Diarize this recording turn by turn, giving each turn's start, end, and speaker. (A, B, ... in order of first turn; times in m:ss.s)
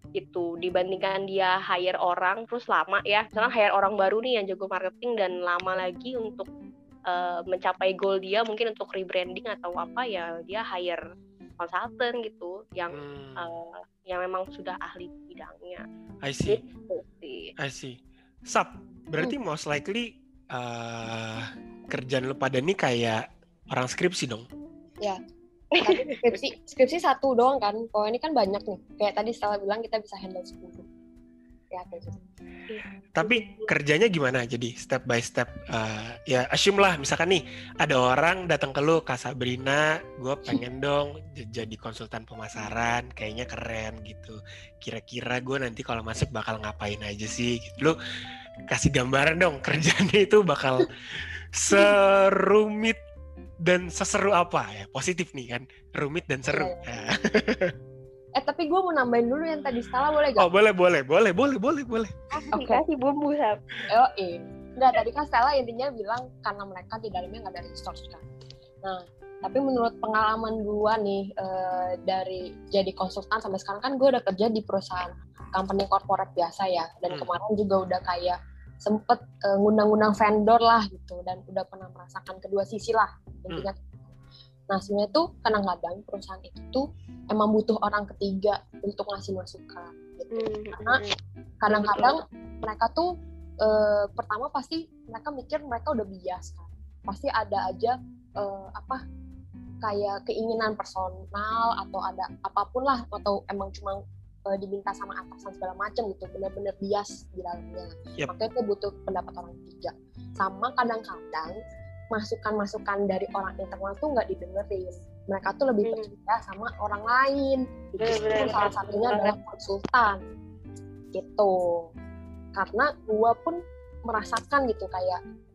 0:00.2-0:06.5 A
0:07.1-0:11.0 A
0:11.6-0:15.8 A
0:12.9-0:13.5 B
0:16.2-0:16.6 B
0:16.5-0:17.5 A
0:17.6-0:24.5 B
0:25.8-0:26.4 A
0:25.8-0:30.9 C
0:31.7-0:32.2 C
0:32.7-0:33.7 A
0:33.2-0:48.0 B
0:48.7-0:50.9 B
0:51.5-0:53.0 B
0:53.6-0:57.7 B
0:56.5-0:56.8 C
0:58.4-1:00.5 C
1:00.4-1:02.2 B
1:02.5-1:02.8 C
1:02.5-1:03.6 A
1:03.9-1:08.2 C
1:08.8-1:23.8 C
1:24.7-1:31.0 C
1:30.3-1:31.1 A
1:31.6-1:33.1 C
1:31.7-1:32.2 A
1:33.6-1:39.0 C
1:39.8-1:51.6 C
1:52.1-2:00.2 C
1:55.8-1:56.1 A
1:58.0-1:58.8 B
1:58.0-1:59.4 A
2:01.1-2:01.9 C
2:02.5-2:05.2 C